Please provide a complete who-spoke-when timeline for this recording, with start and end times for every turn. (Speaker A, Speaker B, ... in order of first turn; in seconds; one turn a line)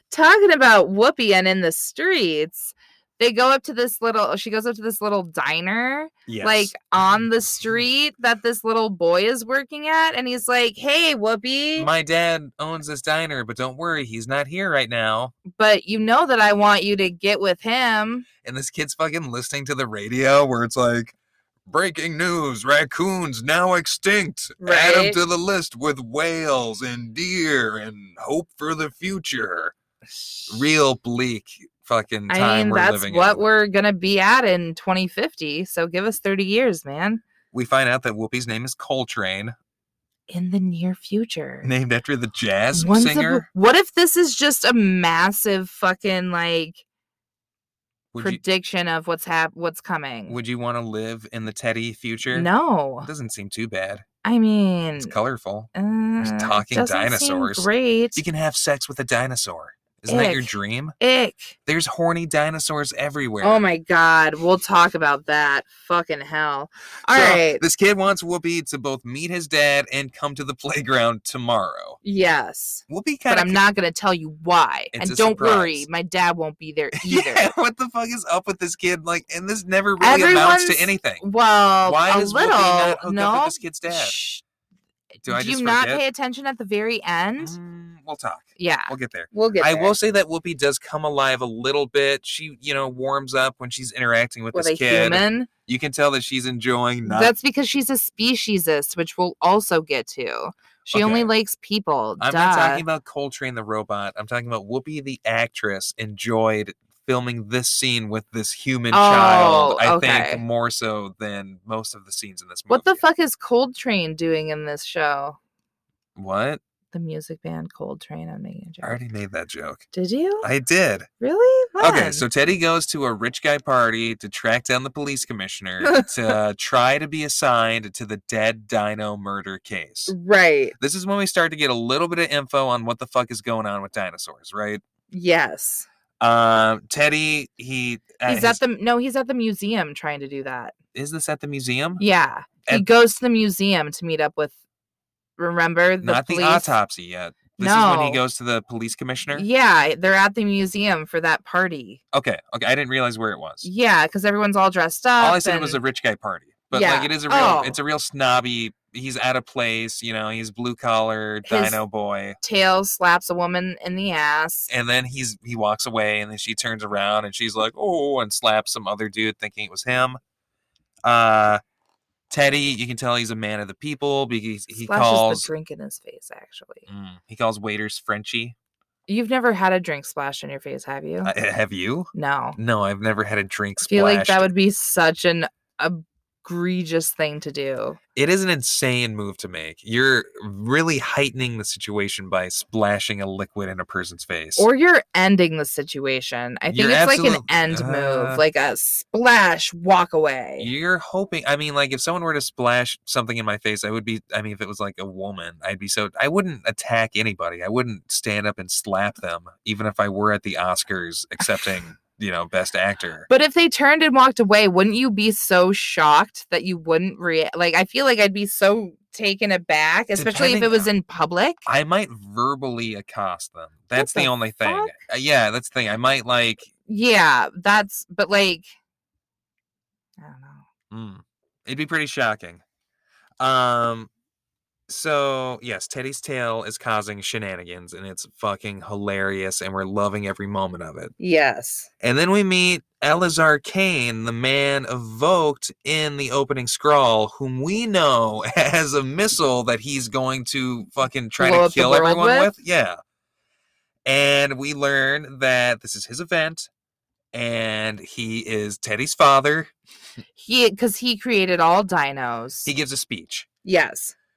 Speaker A: 0.1-11.9
Speaker B: 6.3-6.7
Speaker B: 11.8-15.3
Speaker A: 15.5-18.3
Speaker B: 18.4-21.1
Speaker B: 21.7-29.8
Speaker A: 24.6-25.2
Speaker A: 30.2-30.7
Speaker B: 30.5-33.4
Speaker A: 32.3-37.2
Speaker B: 37.5-39.6
Speaker A: 40.3-41.7
Speaker B: 41.6-43.5
Speaker A: 42.7-46.8
Speaker B: 48.1-48.4
Speaker A: 48.2-50.4
Speaker B: 50.3-52.5
Speaker A: 52.3-53.1
Speaker B: 53.0-54.0
Speaker A: 54.2-55.1
Speaker B: 55.0-55.7
Speaker A: 55.7-58.2
Speaker B: 56.2-61.0
Speaker A: 60.1-61.6
Speaker B: 61.7-63.6
Speaker A: 63.4-67.6
Speaker B: 67.1-72.0
Speaker A: 72.0-77.5
Speaker B: 72.9-73.6
Speaker B: 74.9-75.9
Speaker B: 77.0-81.2
Speaker A: 80.0-84.4
Speaker B: 81.8-84.2
Speaker B: 85.2-86.0
Speaker A: 85.3-87.6
Speaker B: 87.4-97.3
Speaker A: 88.6-89.9
Speaker A: 94.5-95.5
Speaker A: 97.0-102.8
Speaker B: 100.9-101.3
Speaker B: 102.2-113.0
Speaker A: 108.9-110.4
Speaker A: 112.7-115.4
Speaker B: 116.2-116.6
Speaker A: 116.9-119.0
Speaker B: 118.8-119.9
Speaker A: 119.9-120.5
Speaker B: 120.4-121.1
Speaker A: 121.2-122.2
Speaker B: 121.8-130.2
Speaker A: 125.8-126.1
Speaker A: 130.1-130.8
Speaker B: 130.8-134.8
Speaker A: 135.1-135.9
Speaker B: 136.2-138.6
Speaker A: 138.3-140.7
Speaker B: 140.9-142.0
Speaker A: 142.0-144.6
Speaker A: 145.4-146.7
Speaker B: 146.0-149.5
Speaker A: 147.6-148.2
Speaker A: 149.3-152.0
Speaker B: 152.1-153.7
Speaker A: 153.6-155.8
Speaker B: 155.2-162.4
Speaker A: 156.7-157.8
Speaker A: 161.5-161.8
Speaker A: 162.4-164.7
Speaker B: 164.7-170.2
Speaker B: 171.1-171.6
Speaker B: 172.3-175.5
Speaker A: 174.8-176.9
Speaker B: 176.9-178.6
Speaker A: 179.1-181.3
Speaker B: 181.2-184.5
Speaker A: 182.1-182.6
Speaker A: 183.8-188.0
Speaker B: 188.2-194.7
Speaker A: 194.6-200.7
Speaker B: 196.7-198.4
Speaker B: 200.6-213.3
Speaker A: 213.3-221.7
Speaker B: 220.2-220.9
Speaker B: 221.7-226.7
Speaker A: 223.9-225.0
Speaker A: 226.9-228.7
Speaker A: 230.2-230.7
Speaker B: 230.9-232.6
Speaker B: 233.4-234.1
Speaker B: 234.9-241.1
Speaker A: 241.2-241.9
Speaker B: 242.0-253.0
Speaker A: 251.4-252.5
Speaker B: 254.1-256.7
Speaker B: 257.3-259.7
Speaker A: 260.4-262.7
Speaker B: 262.6-263.5
Speaker A: 263.6-264.1